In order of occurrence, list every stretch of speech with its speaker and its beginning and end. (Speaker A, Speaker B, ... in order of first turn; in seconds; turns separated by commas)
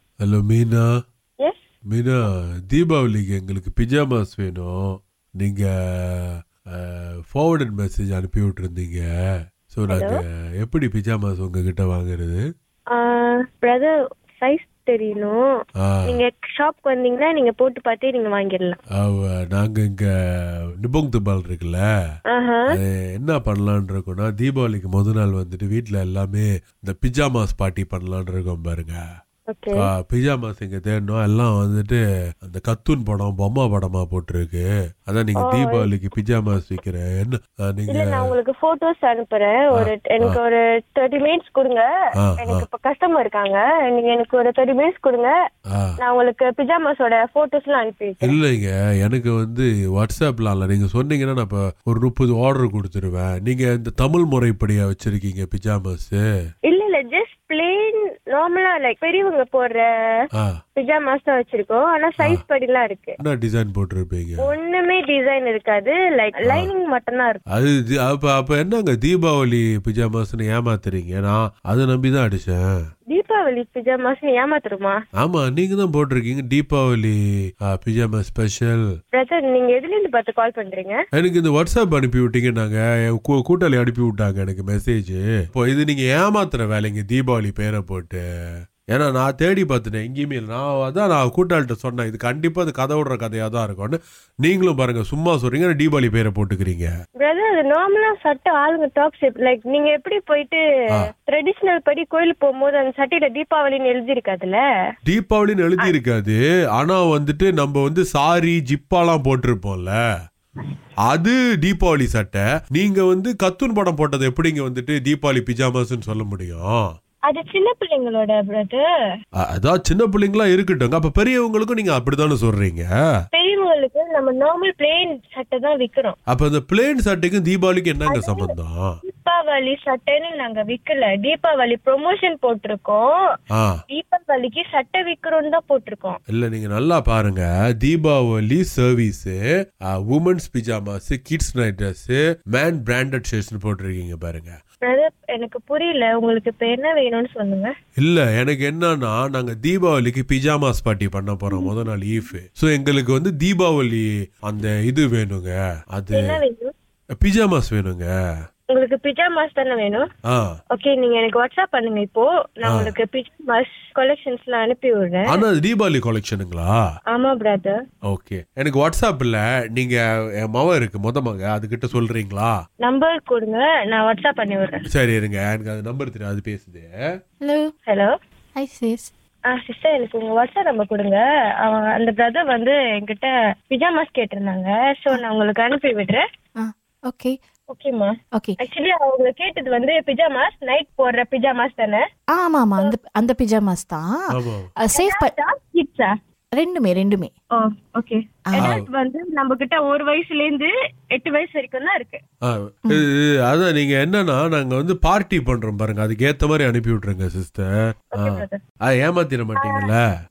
Speaker A: 0.2-0.9, Speaker A: 1.9-4.7, Speaker A: 5.4-9.0, Speaker A: 9.7-12.4, Speaker B: 9.9-10.1, Speaker B: 12.9-15.4, Speaker A: 15.8-16.2, Speaker B: 16.1-18.8, Speaker A: 19.0-20.1, Speaker A: 20.8-21.8, Speaker B: 22.3-22.6, Speaker A: 22.7-29.0, Speaker B: 29.5-29.8, Speaker A: 29.8-38.3, Speaker B: 35.4-35.9, Speaker B: 37.9-41.9, Speaker A: 39.7-40.4, Speaker A: 42.2-42.6, Speaker B: 42.4-45.3, Speaker B: 46.0-48.4, Speaker A: 48.2-56.2, Speaker B: 56.7-59.9, Speaker B: 60.8-63.1, Speaker A: 63.2-64.5, Speaker B: 64.4-67.4, Speaker A: 67.5-72.7, Speaker B: 73.1-75.0, Speaker A: 75.2-77.1, Speaker A: 77.7-78.8, Speaker B: 79.1-81.0, Speaker A: 81.2-88.2, Speaker A: 88.9-96.9, Speaker B: 97.2-100.6, Speaker B: 101.2-104.6, Speaker A: 105.1-110.0, Speaker A: 111.1-116.8, Speaker B: 117.3-118.8, Speaker A: 119.4-122.9, Speaker B: 123.3-126.2, Speaker A: 126.3-128.9, Speaker B: 128.1-133.1, Speaker B: 133.9-136.2, Speaker A: 136.3-139.4, Speaker A: 139.9-144.6, Speaker B: 144.8-147.7, Speaker A: 148.0-156.4, Speaker B: 151.5-151.8, Speaker B: 156.1-156.7, Speaker A: 157.2-158.1, Speaker B: 158.7-160.0, Speaker B: 160.7-165.4, Speaker A: 162.7-162.9, Speaker A: 165.3-166.7, Speaker B: 167.1-167.8, Speaker A: 168.1-172.5, Speaker B: 172.8-174.8, Speaker A: 174.9-176.9, Speaker C: 177.4-177.7, Speaker B: 177.9-178.1, Speaker C: 178.6-179.1, Speaker B: 179.5-186.2, Speaker C: 186.6-187.3, Speaker B: 187.7-192.0, Speaker C: 192.3-194.2, Speaker A: 194.3-194.7, Speaker C: 194.8-195.3, Speaker B: 194.9-196.1, Speaker C: 196.5-197.3, Speaker B: 197.6-202.2, Speaker C: 198.5-198.7, Speaker A: 202.4-210.0, Speaker B: 208.2-208.6, Speaker B: 209.6-209.8